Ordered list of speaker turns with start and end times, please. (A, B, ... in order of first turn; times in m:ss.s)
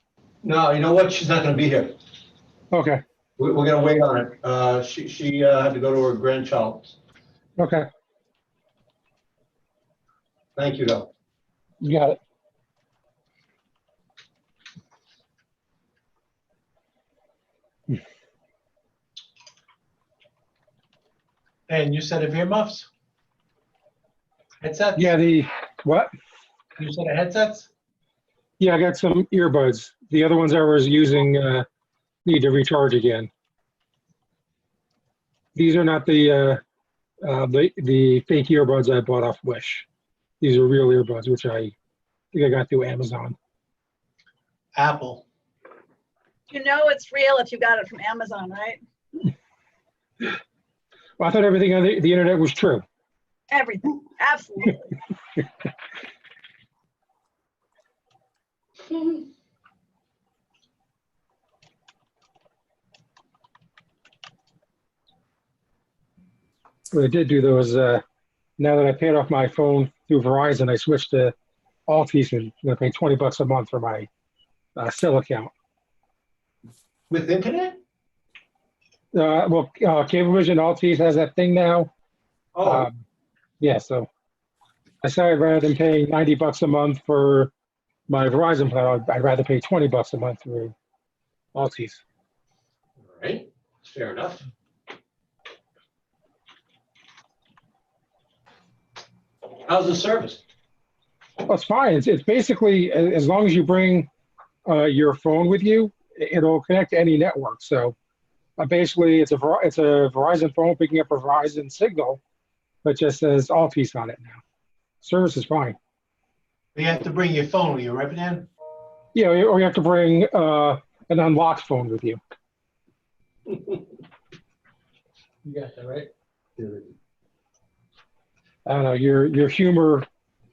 0:00.4-0:02.0 A
0:02.7-0:03.0 B
0:03.4-0:07.0 A
0:07.6-0:07.9 B
0:10.6-0:11.1 A
0:11.8-0:12.2 B
0:21.7-0:22.9 C
0:24.6-0:25.1 C
0:24.9-0:26.1 B
0:26.8-0:27.7 C
0:28.6-0:31.7 B
0:32.2-0:33.3 B
0:35.6-0:36.6 B
0:37.2-0:39.9 B
0:40.4-0:41.7 B
0:42.3-0:43.4 B
0:44.8-0:45.2 C
0:46.5-0:48.8 D
0:51.2-0:52.8 B
0:53.5-0:54.9 D
1:06.9-1:08.0 B
1:08.6-1:11.3 B
1:11.9-1:14.1 B
1:14.8-1:15.5 B
1:17.1-1:17.8 A
1:19.1-1:21.9 B
1:22.6-1:22.9 A
1:22.6-1:23.0 B
1:23.6-1:24.1 B
1:25.0-1:27.5 B
1:28.1-1:30.7 B
1:31.5-1:32.0 B
1:33.0-1:34.5 A
1:39.6-1:40.4 A
1:41.5-1:44.1 B
1:44.7-1:48.0 B
1:48.6-1:52.2 B
1:52.8-1:54.4 B
1:55.0-1:55.8 B
1:56.8-1:58.5 C
1:59.2-2:02.2 B
2:05.4-2:06.1 C
2:06.6-2:06.9 A
2:08.6-2:10.1 B